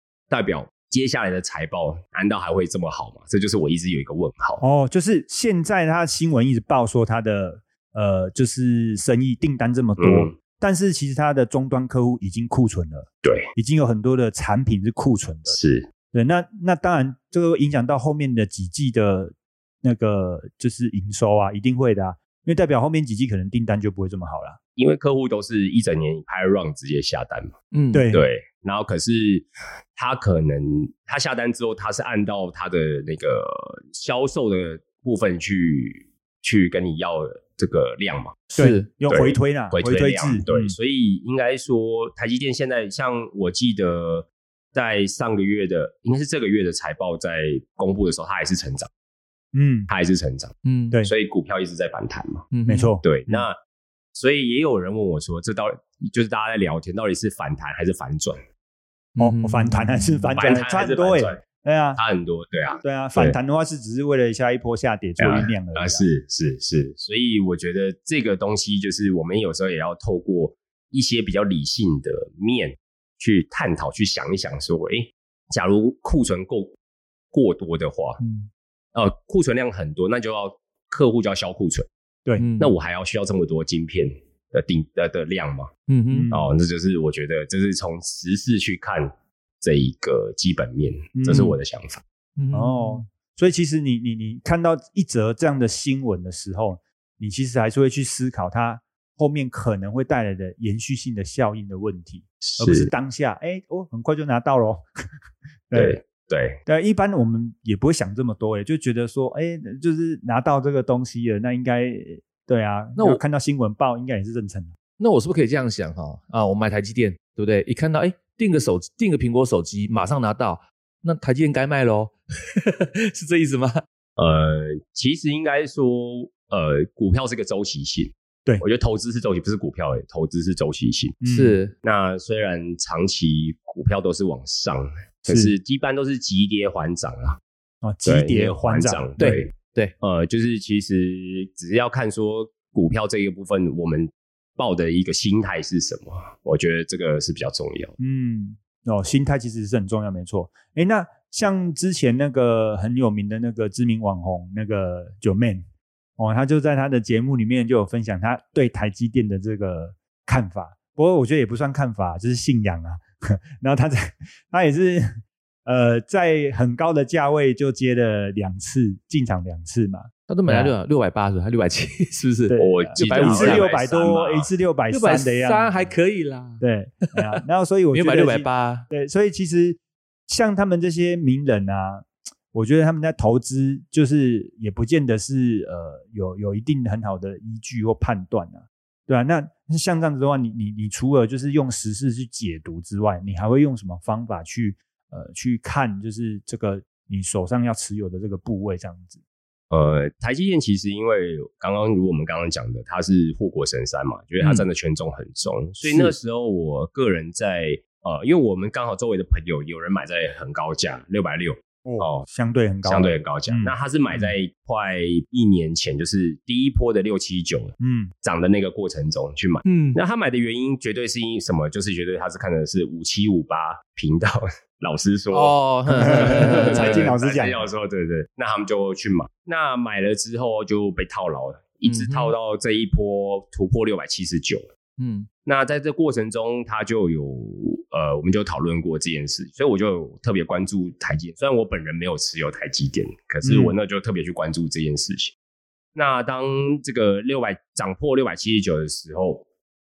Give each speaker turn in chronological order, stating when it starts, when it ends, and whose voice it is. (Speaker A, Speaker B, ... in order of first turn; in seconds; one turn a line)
Speaker A: 0.3-4.6
Speaker B: 4.6-15.6
Speaker A: 10.0-10.3
Speaker A: 13.2-13.5
Speaker A: 15.5-15.9
Speaker B: 16.1-24.6
Speaker A: 24.8-27.5
Speaker C: 27.7-28.1
Speaker B: 27.9-28.2
Speaker A: 28.1-38.4
Speaker C: 38.5-38.9
Speaker B: 38.5-40.7
Speaker A: 39.1-48.9
Speaker B: 49.5-49.9
Speaker A: 49.9-50.5
Speaker C: 50.6-50.9
Speaker A: 51.0-52.5
Speaker C: 52.5-52.9
Speaker B: 52.6-53.0
Speaker A: 53.0-53.6
Speaker A: 54.1-58.4
Speaker C: 59.1-60.3
Speaker B: 59.2-62.0
Speaker A: 60.4-61.4
Speaker A: 62.0-63.4
Speaker B: 62.8-66.0
Speaker A: 65.2-76.7
Speaker A: 77.3-78.2
Speaker C: 78.2-78.5
Speaker A: 78.9-81.9
Speaker C: 82.4-82.7
Speaker A: 82.6-85.7
Speaker C: 85.9-86.3
Speaker B: 86.1-86.4
Speaker A: 86.3-92.0
Speaker B: 91.2-91.5
Speaker C: 92.4-93.0
Speaker B: 92.5-104.8
Speaker A: 102.4-102.9
Speaker B: 105.7-106.0
Speaker A: 105.7-106.6
Speaker B: 106.7-114.7
Speaker C: 113.0-113.2
Speaker C: 115.0-123.8
Speaker A: 124.2-131.2
Speaker B: 131.2-131.6
Speaker C: 131.3-131.7
Speaker A: 131.8-137.4
Speaker B: 137.8-139.2
Speaker A: 138.0-147.9
Speaker C: 139.2-139.9
Speaker B: 148.0-155.6
Speaker B: 156.2-170.7
Speaker C: 170.3-173.7
Speaker B: 172.5-175.9
Speaker A: 172.6-174.5
Speaker C: 174.9-176.6
Speaker B: 176.6-199.2
Speaker C: 177.9-178.8
Speaker A: 199.7-212.3
Speaker B: 211.8-214.3
Speaker A: 212.8-234.7
Speaker B: 217.8-218.1
Speaker C: 219.6-220.0
Speaker C: 225.3-227.1
Speaker B: 225.9-227.7
Speaker C: 231.8-232.3
Speaker C: 235.0-235.3
Speaker A: 235.4-245.3
Speaker B: 243.4-243.8
Speaker A: 245.9-249.4